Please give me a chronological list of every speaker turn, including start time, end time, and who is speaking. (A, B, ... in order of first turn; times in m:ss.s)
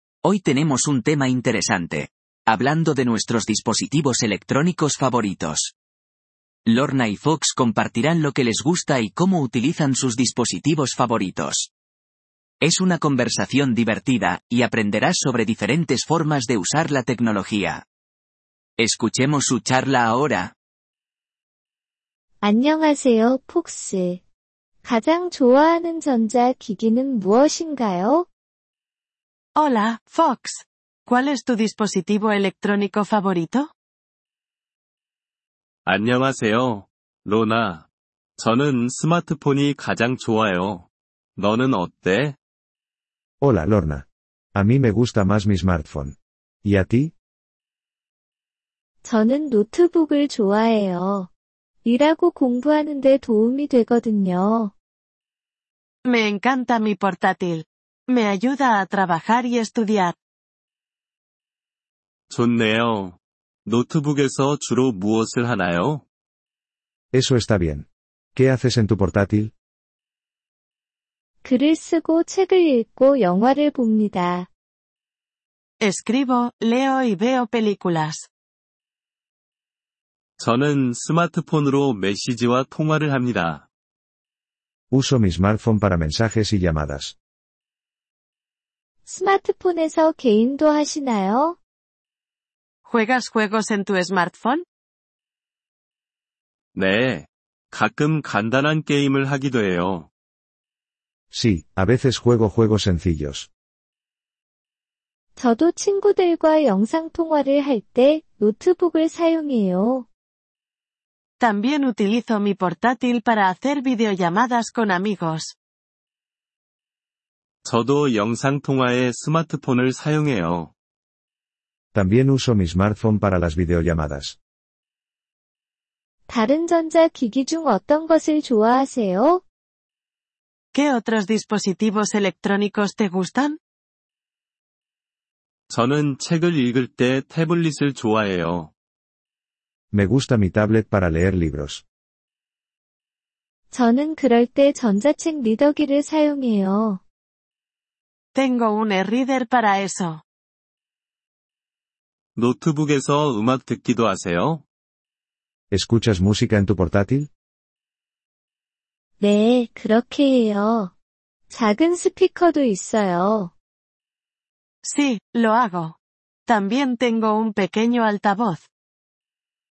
0:00.2-0:05.7 A
0:06.6-0:11.7 A
0:12.6-0:17.8 A
0:18.8-0:20.5 A
0:22.4-0:24.2 B
0:24.8-0:28.3 B
0:29.6-0:33.7 C
0:35.8-0:37.8 D
0:38.4-0:42.4 D
0:43.4-0:47.1 E
0:49.0-0:51.3 B
0:51.8-0:54.7 B
0:56.0-1:00.2 C
1:02.3-1:06.0 D
1:07.1-1:09.5 E
1:11.4-1:14.5 B
1:15.8-1:18.3 C
1:20.4-1:23.6 D
1:24.9-1:27.1 E
1:29.0-1:31.6 B
1:32.9-1:34.6 C
1:36.7-1:40.1 D
1:41.3-1:43.5 E
1:45.4-1:50.1 B
1:51.4-1:55.5 C
1:57.6-2:00.7 D
2:01.9-2:04.4 E
2:06.3-2:09.4 B
2:10.7-2:13.6 C
2:15.7-2:18.7 D
2:19.9-2:21.8 E
2:23.7-2:27.0 B
2:28.3-2:30.2 C
2:32.4-2:34.6 D
2:35.7-2:37.3 E
2:39.2-2:40.9 B
2:41.5-2:43.5 B
2:44.8-2:46.0 C
2:46.5-2:48.6 C